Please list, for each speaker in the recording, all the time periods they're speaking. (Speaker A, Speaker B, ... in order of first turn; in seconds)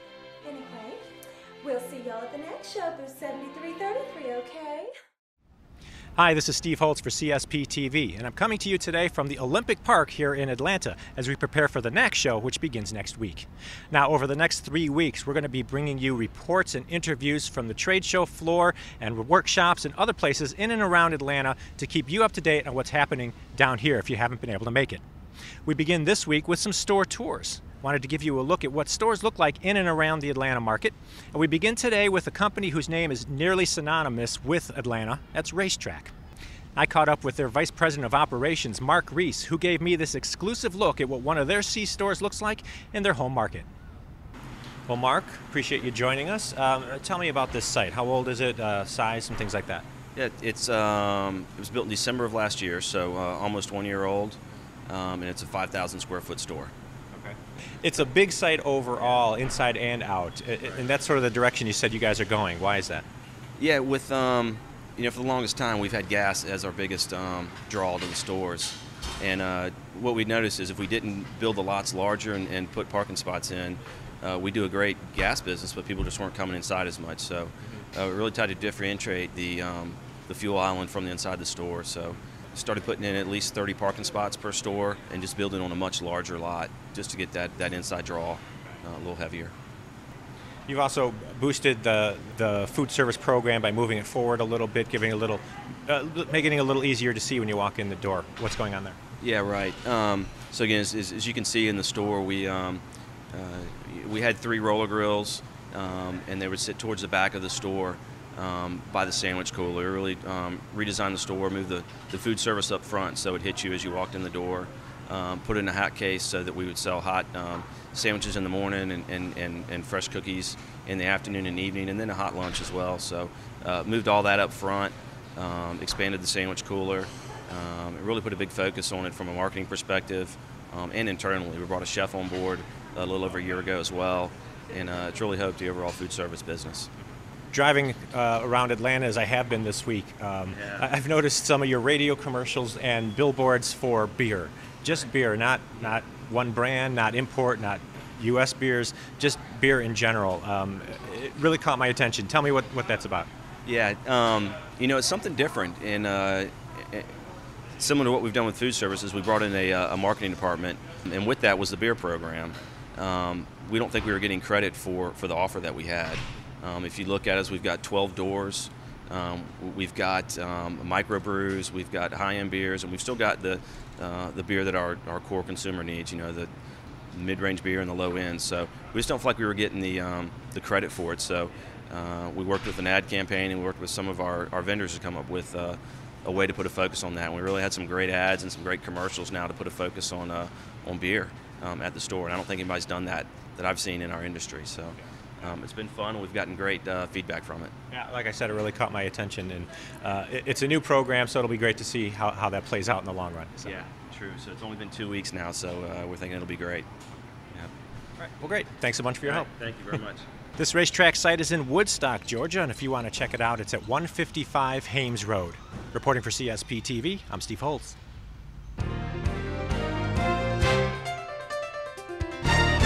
Speaker A: 0.4-1.1, 1.6-4.9
Speaker B: 6.2-25.0, 25.6-36.1, 36.7-43.7, 44.9-49.8, 57.8-63.0, 90.7-99.0, 137.5-153.3, 197.9-203.7, 208.2-209.5, 210.6-217.9
Speaker C: 50.1-57.3, 63.6-89.5, 99.2-136.9, 140.5-140.8, 153.7-157.1, 157.8-176.5, 177.1-197.7, 203.6-206.9, 209.2-210.2